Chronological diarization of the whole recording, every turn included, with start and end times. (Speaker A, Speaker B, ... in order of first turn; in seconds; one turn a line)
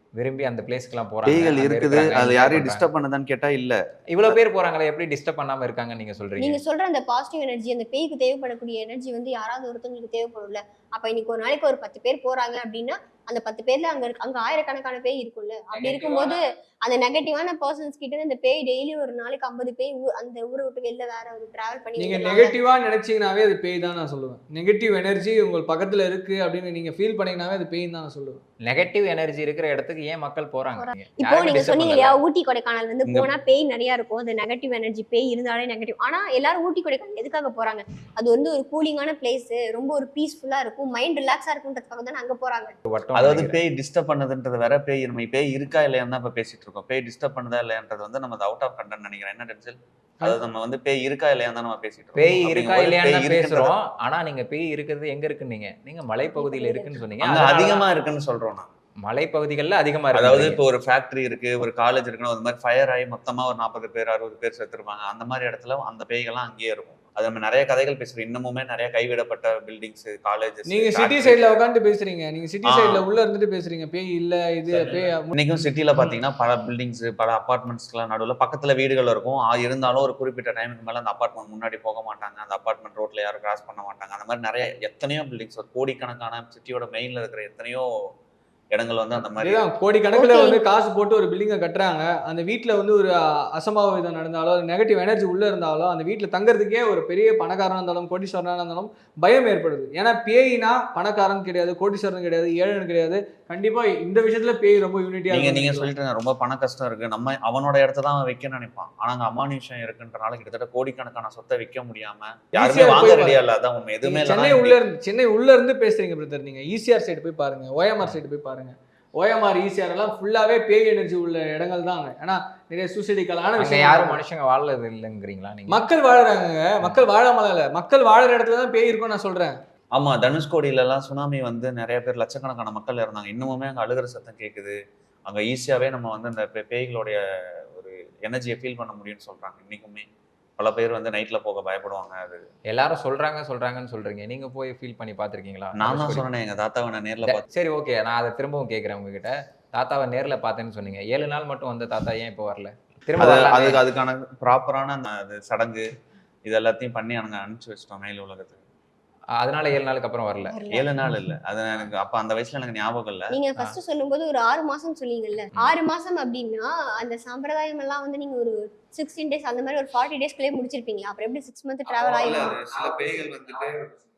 Speaker A: 0.2-2.9
Speaker B: 1.2-4.4
Speaker A: 4.1-6.6
Speaker C: 6.4-22.6
Speaker A: 15.7-16.4
Speaker D: 22.0-28.4
Speaker A: 28.6-32.2
Speaker C: 31.2-42.7
Speaker A: 42.9-43.6
Speaker B: 43.1-53.8
Speaker A: 52.2-57.9
Speaker C: 56.3-57.0
Speaker B: 57.2-58.7
Speaker A: 59.0-60.6
Speaker B: 60.1-71.5
Speaker D: 70.7-75.3
Speaker B: 72.7-73.0
Speaker B: 74.7-87.9
Speaker B: 88.7-89.6
Speaker D: 89.4-105.9
Speaker C: 90.1-90.6
Speaker B: 105.3-114.8
Speaker D: 112.6-113.4
Speaker D: 114.0-124.2
Speaker A: 123.6-125.8
Speaker D: 125.7-129.6
Speaker B: 129.9-140.1
Speaker B: 140.6-142.4
Speaker A: 142.7-146.3
Speaker B: 145.8-147.4
Speaker A: 147.2-153.8
Speaker B: 153.2-155.9
Speaker B: 156.4-158.6
Speaker A: 159.3-160.6
Speaker C: 160.5-160.9
Speaker B: 160.7-163.4
Speaker C: 163.3-172.6
Speaker B: 171.9-174.0